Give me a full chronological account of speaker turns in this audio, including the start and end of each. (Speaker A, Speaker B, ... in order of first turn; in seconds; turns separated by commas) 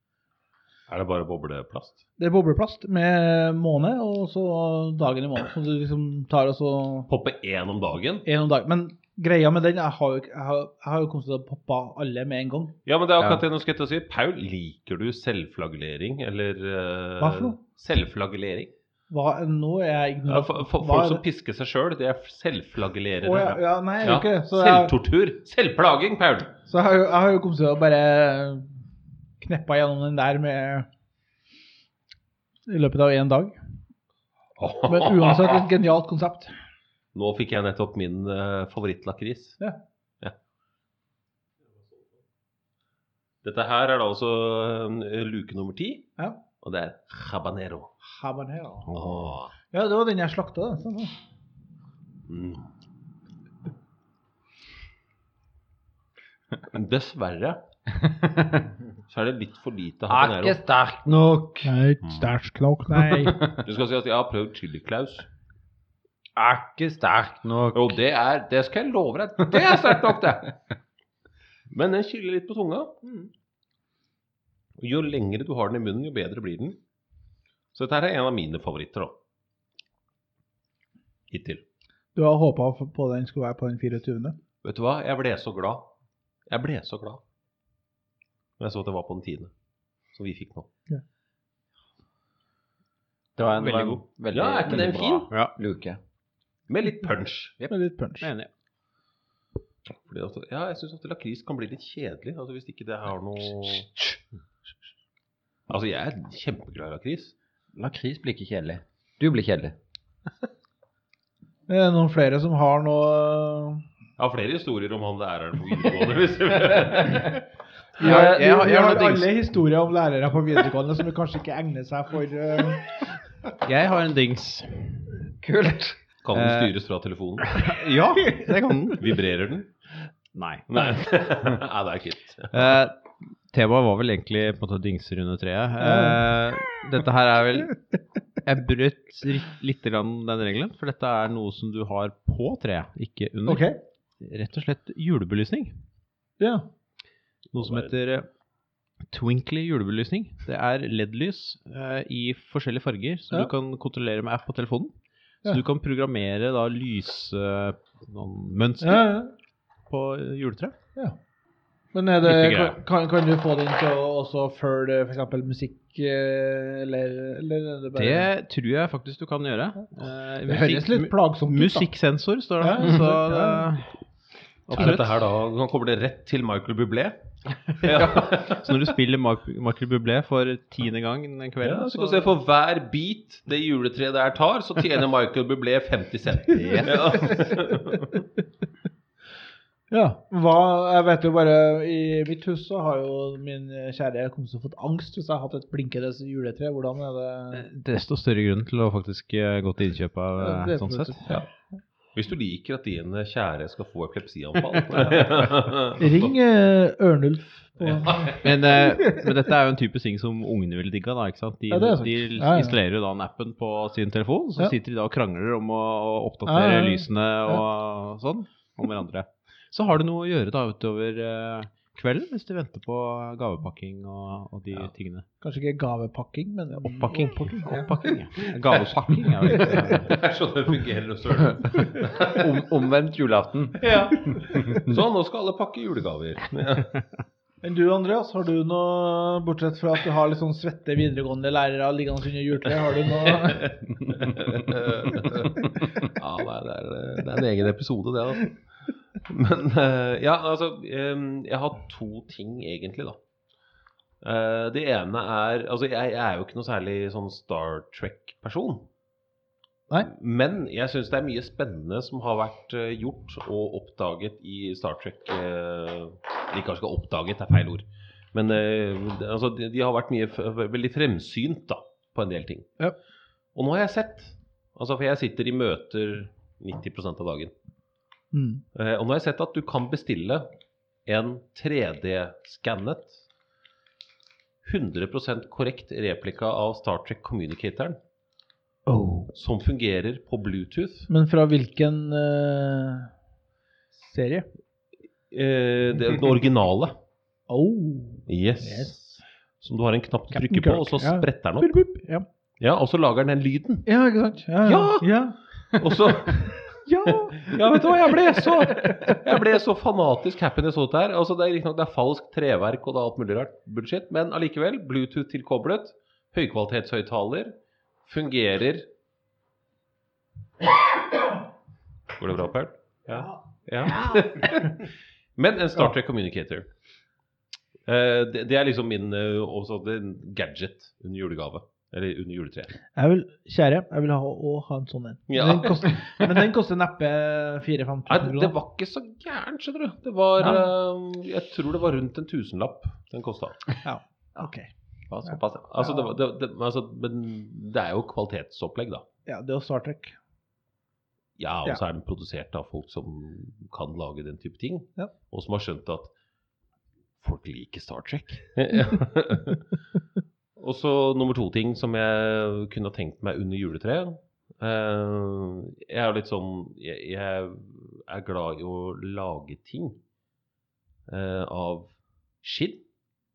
Speaker A: 0.9-2.0, Speaker B: 2.2-7.1, Speaker A: 7.1-8.2, Speaker B: 8.2-12.7, Speaker A: 12.8-18.7, Speaker B: 17.2-17.6, Speaker B: 19.1-21.2, Speaker A: 20.3-26.5, Speaker B: 23.2-24.9, Speaker B: 26.7-28.7, Speaker B: 29.4-30.9, Speaker B: 32.7-33.5, Speaker A: 34.6-35.6, Speaker B: 34.9-36.5, Speaker A: 37.1-39.6, Speaker A: 43.4-47.9, Speaker B: 48.0-48.9, Speaker C: 48.9-49.3, Speaker A: 48.9-49.5, Speaker B: 49.7-51.1, Speaker A: 52.3-52.6, Speaker A: 56.7-57.6, Speaker D: 57.9-58.7, Speaker A: 59.1-60.6, Speaker D: 60.1-61.7, Speaker B: 61.6-63.4, Speaker A: 62.0-62.3, Speaker D: 63.1-63.6, Speaker A: 63.5-65.3, Speaker D: 66.3-68.0, Speaker A: 67.7-70.5, Speaker D: 69.5-69.8, Speaker A: 71.7-73.0, Speaker A: 74.8-76.8, Speaker A: 77.7-79.1, Speaker A: 81.3-81.6, Speaker B: 82.1-84.4, Speaker A: 84.6-85.9, Speaker A: 86.5-87.2, Speaker A: 88.6-89.5, Speaker A: 90.1-90.7, Speaker D: 93.3-96.0, Speaker C: 93.6-94.0, Speaker A: 94.3-95.3, Speaker A: 96.7-97.5, Speaker B: 97.7-98.3, Speaker C: 98.2-98.5, Speaker A: 100.0-104.0, Speaker A: 105.7-107.3, Speaker D: 107.7-109.8, Speaker B: 111.7-113.8, Speaker A: 114.2-117.4, Speaker B: 118.0-122.9, Speaker C: 118.0-119.3, Speaker C: 123.6-125.2, Speaker D: 125.4-126.0, Speaker A: 126.2-127.7, Speaker C: 126.3-126.7, Speaker C: 127.4-129.1, Speaker A: 129.0-129.7, Speaker C: 130.3-130.6, Speaker A: 130.7-132.8, Speaker C: 132.5-133.0, Speaker C: 133.5-145.8, Speaker B: 135.8-136.2, Speaker B: 143.4-143.8, Speaker B: 146.4-146.7, Speaker C: 147.5-148.3, Speaker A: 147.6-147.9, Speaker C: 149.1-154.9, Speaker C: 155.4-159.1, Speaker B: 158.8-159.3, Speaker C: 159.9-160.7, Speaker B: 161.9-168.3, Speaker C: 162.2-162.8, Speaker C: 167.9-174.0, Speaker B: 170.4-171.9, Speaker B: 172.6-173.7, Speaker C: 174.7-175.1, Speaker A: 174.7-177.2, Speaker A: 177.7-178.9, Speaker C: 177.8-182.3, Speaker A: 181.6-188.2, Speaker C: 186.5-187.4, Speaker B: 186.6-187.6, Speaker B: 189.9-197.7, Speaker C: 197.5-201.3, Speaker B: 200.4-201.4, Speaker A: 202.1-206.3, Speaker B: 206.0-208.4, Speaker A: 207.8-208.6, Speaker C: 208.4-225.2, Speaker B: 209.0-209.2, Speaker B: 211.7-212.8, Speaker B: 216.4-217.6, Speaker B: 225.4-228.1, Speaker C: 226.8-230.2, Speaker A: 229.7-232.5, Speaker D: 232.1-235.0, Speaker A: 233.8-237.0, Speaker B: 237.6-243.7, Speaker A: 243.2-253.2, Speaker A: 254.2-258.9, Speaker A: 260.0-272.8, Speaker A: 273.5-277.5, Speaker B: 278.3-278.6, Speaker A: 278.7-280.5, Speaker A: 281.1-283.2, Speaker A: 284.6-288.0, Speaker B: 288.9-289.3, Speaker A: 289.3-291.1, Speaker B: 291.1-293.1, Speaker B: 293.9-294.5, Speaker A: 295.3-296.9, Speaker B: 297.5-299.2, Speaker A: 298.3-299.0, Speaker A: 299.6-301.8, Speaker B: 300.3-302.3, Speaker A: 302.6-303.9, Speaker B: 303.9-305.4, Speaker A: 304.6-305.2, Speaker A: 305.7-318.9, Speaker B: 306.8-309.2, Speaker A: 322.1-326.7, Speaker A: 327.9-332.7, Speaker B: 332.9-338.5, Speaker A: 335.3-336.2, Speaker A: 338.1-343.7, Speaker B: 340.4-340.6, Speaker B: 343.8-344.7, Speaker D: 345.1-345.6, Speaker B: 345.2-346.1, Speaker A: 345.7-349.0, Speaker B: 349.3-350.1, Speaker A: 351.4-356.1, Speaker A: 357.2-359.6, Speaker A: 360.6-370.0, Speaker A: 371.1-372.8